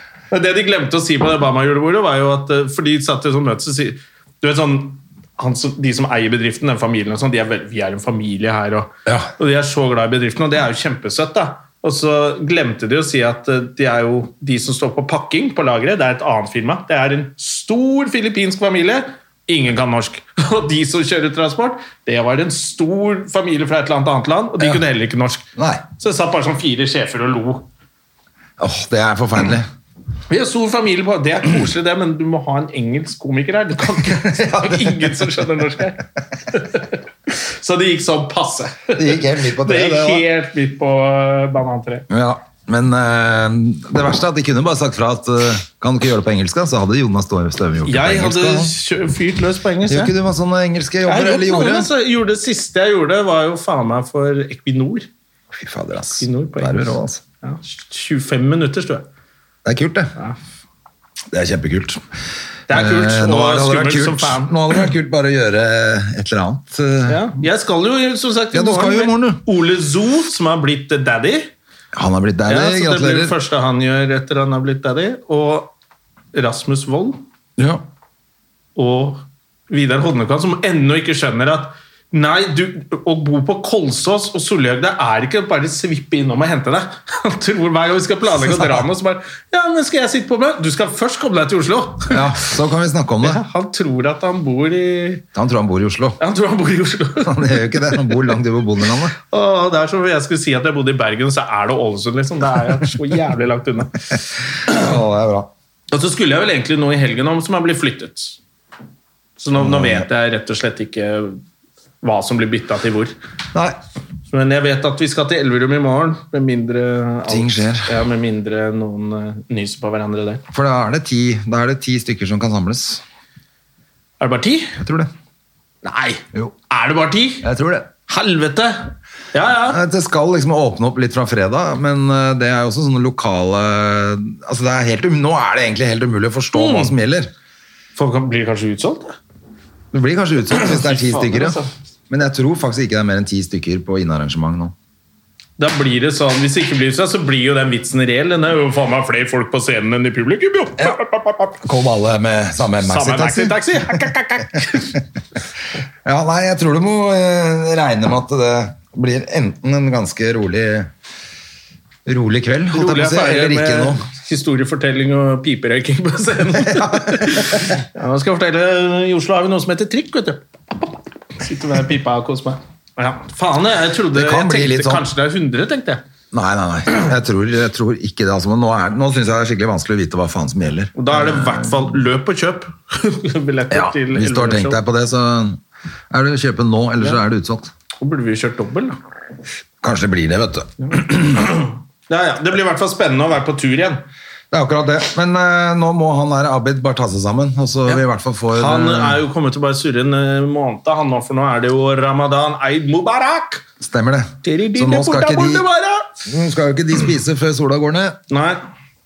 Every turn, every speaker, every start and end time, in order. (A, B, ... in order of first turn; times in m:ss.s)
0:00.3-0:27.7 A
0:25.6-0:25.8 B
0:28.6-0:29.7 B
0:30.3-0:42.1 A
0:34.1-0:35.3 B
0:39.0-0:40.2 B
0:42.1-0:48.7 B
0:47.9-0:50.1 A
0:49.8-0:51.9 B
0:51.1-0:55.1 A
0:55.5-0:57.2 B
0:56.2-0:56.9 A
0:57.4-0:59.0 A
0:59.6-1:00.2 B
1:01.3-1:02.0 B
1:02.7-1:04.6 A
1:02.7-1:07.4 B
1:07.1-1:11.5 A
1:08.5-1:09.4 B
1:11.9-1:13.4 B
1:12.5-1:15.7 A
1:16.3-1:17.2 A
1:17.6-1:17.8 B
1:18.8-1:32.2 A
1:28.4-1:28.8 B
1:32.1-1:33.4 B
1:33.2-1:35.2 A
1:35.4-1:36.2 B
1:36.2-1:38.3 A
1:37.2-1:39.2 B
1:39.2-1:44.0 A
1:44.7-1:45.5 B
1:45.9-1:48.4 A
1:49.4-1:51.4 A
1:49.6-1:50.1 B
1:52.0-1:53.1 A
1:53.5-1:53.8 B
1:54.3-2:00.4 A
1:57.3-1:57.9 B
2:00.5-2:03.0 B
2:04.2-2:04.8 A
2:04.8-2:05.1 B
2:05.8-2:07.4 A
2:07.4-2:07.9 B
2:08.1-2:09.8 A
2:09.7-2:17.3 B
2:16.5-2:16.9 A
2:18.0-2:19.2 A
2:19.9-2:24.8 B
2:20.6-2:21.7 A
2:25.6-2:31.6 A
2:31.6-2:34.0 B
2:32.8-2:35.0 A
2:36.0-2:40.9 B
2:42.0-2:44.0 B
2:42.7-2:56.0 A
2:46.6-2:47.7 B
2:54.1-2:55.1 B
2:56.3-3:01.9 B
3:01.0-3:04.8 A
3:03.7-3:07.7 B
3:08.0-3:09.0 A
3:09.8-3:11.5 B
3:11.4-3:14.0 A
3:14.5-3:19.2 B
3:18.5-3:23.6 A
3:23.8-3:25.6 B
3:24.4-3:26.1 A
3:26.2-3:28.2 B
3:28.3-3:28.6 A